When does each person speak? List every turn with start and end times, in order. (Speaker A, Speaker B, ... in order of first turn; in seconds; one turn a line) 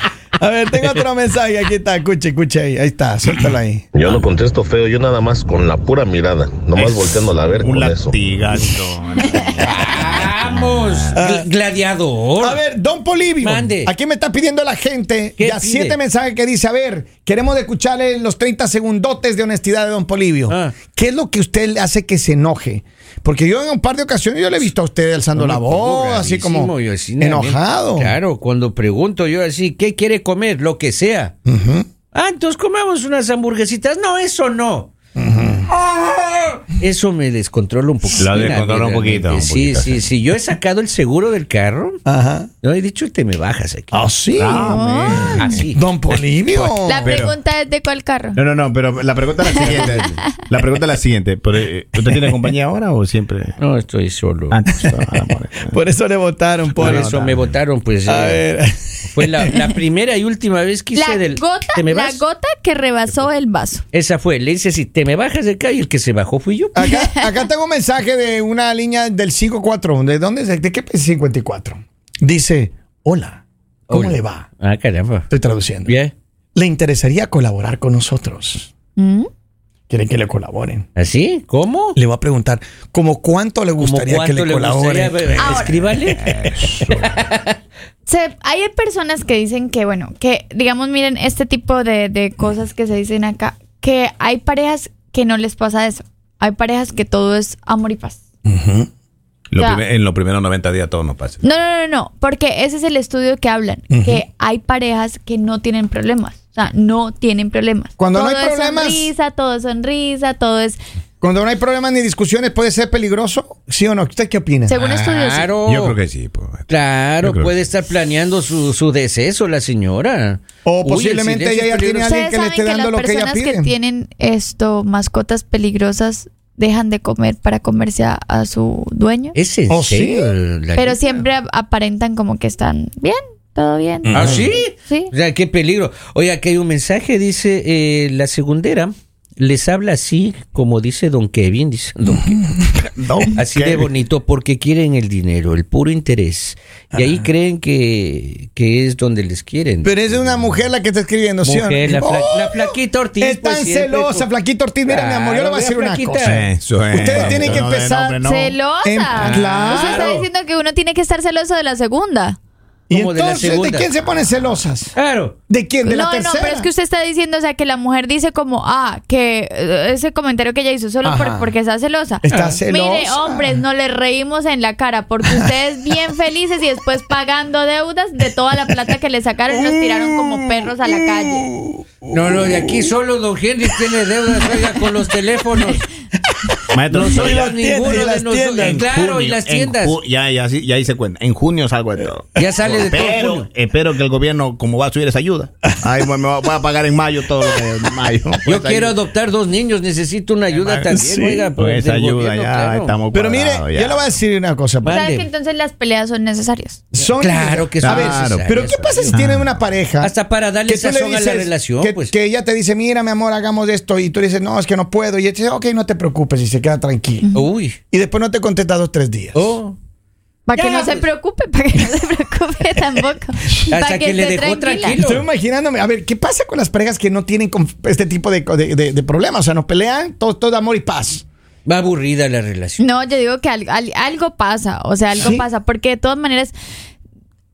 Speaker A: 0.4-3.9
Speaker B: 3.9-8.7
Speaker C: 6.7-11.1
Speaker D: 9.6-12.6
Speaker A: 11.1-11.5
Speaker A: 12.4-28.1
Speaker D: 13.4-13.9
Speaker D: 15.4-16.0
Speaker D: 20.5-20.7
Speaker D: 25.4-31.3
Speaker A: 31.4-31.9
Speaker D: 32.1-34.9
Speaker A: 35.1-35.7
Speaker D: 35.7-42.0
Speaker C: 38.1-40.0
Speaker A: 42.0-42.5
Speaker D: 42.6-44.0
Speaker A: 43.9-47.1
Speaker C: 44.4-45.6
Speaker E: 44.5-45.6
Speaker D: 45.3-45.9
Speaker D: 46.5-46.8
Speaker E: 46.8-48.4
Speaker C: 47.0-47.3
Speaker C: 48.3-53.5
Speaker E: 49.5-50.2
Speaker D: 53.6-54.6
Speaker C: 54.5-55.8
Speaker A: 55.6-57.1
Speaker C: 56.8-57.5
Speaker D: 56.8-58.5
Speaker A: 58.0-59.5
Speaker D: 59.1-62.2
Speaker E: 60.9-63.8
Speaker D: 63.9-66.7
Speaker A: 66.7-74.5
Speaker E: 66.8-67.4
Speaker D: 73.9-75.3
Speaker A: 75.3-76.0
Speaker D: 75.9-76.1
Speaker A: 76.5-78.7
Speaker E: 79.0-79.3
Speaker A: 79.9-80.8
Speaker D: 81.0-82.0
Speaker A: 81.9-85.7
Speaker D: 83.8-86.3
Speaker E: 85.4-85.8
Speaker C: 86.2-87.2
Speaker D: 86.9-87.5
Speaker E: 88.0-98.2
Speaker A: 98.4-98.9
Speaker C: 99.5-101.4
Speaker E: 99.5-99.8
Speaker E: 101.4-110.8
Speaker A: 103.9-104.2
Speaker A: 108.0-109.1
Speaker A: 111.2-114.8
Speaker E: 114.7-115.5
Speaker D: 114.8-116.0
Speaker C: 115.6-116.7
Speaker D: 116.7-122.2
Speaker C: 117.2-117.5
Speaker A: 120.6-123.7
Speaker E: 122.0-129.3
Speaker D: 129.3-131.2
Speaker A: 129.7-130.3
Speaker E: 130.8-135.1
Speaker A: 134.0-134.4
Speaker D: 134.1-142.6
Speaker C: 142.9-143.9
Speaker D: 143.3-150.2
Speaker A: 146.9-147.2
Speaker A: 149.8-158.2
Speaker D: 151.4-154.3
Speaker D: 154.9-156.5
Speaker C: 156.2-158.6
Speaker D: 157.1-157.6
Speaker E: 158.2-162.4
Speaker A: 158.8-160.2
Speaker D: 159.1-160.2
Speaker A: 162.9-164.9
Speaker D: 162.9-163.9
Speaker D: 164.9-165.3
Speaker A: 165.5-166.7
Speaker E: 165.8-181.4
Speaker A: 171.0-171.5
Speaker A: 172.2-173.6
Speaker D: 172.3-172.6
Speaker A: 175.2-175.5
Speaker A: 179.5-182.9
Speaker D: 182.1-185.8
Speaker A: 183.7-184.7
Speaker A: 186.2-188.9
Speaker C: 186.7-187.5
Speaker D: 186.9-190.0
Speaker C: 188.6-198.9
Speaker D: 192.3-193.5
Speaker D: 198.4-203.0
Speaker C: 200.6-200.9
Speaker A: 200.9-201.5
Speaker C: 201.5-204.1
Speaker A: 203.1-205.0
Speaker D: 204.8-205.3
Speaker E: 204.8-206.8
Speaker A: 206.9-210.1
Speaker D: 207.2-209.2
Speaker C: 207.8-209.5
Speaker D: 210.0-212.1
Speaker A: 210.6-217.3
Speaker E: 217.2-217.5
Speaker D: 217.3-217.8
Speaker A: 217.9-219.5
Speaker D: 219.3-219.8
Speaker E: 220.5-225.0
Speaker D: 220.5-221.1
Speaker D: 223.6-225.2
Speaker A: 225.0-231.2
Speaker D: 231.7-232.8
Speaker E: 232.8-236.5
Speaker A: 235.2-235.4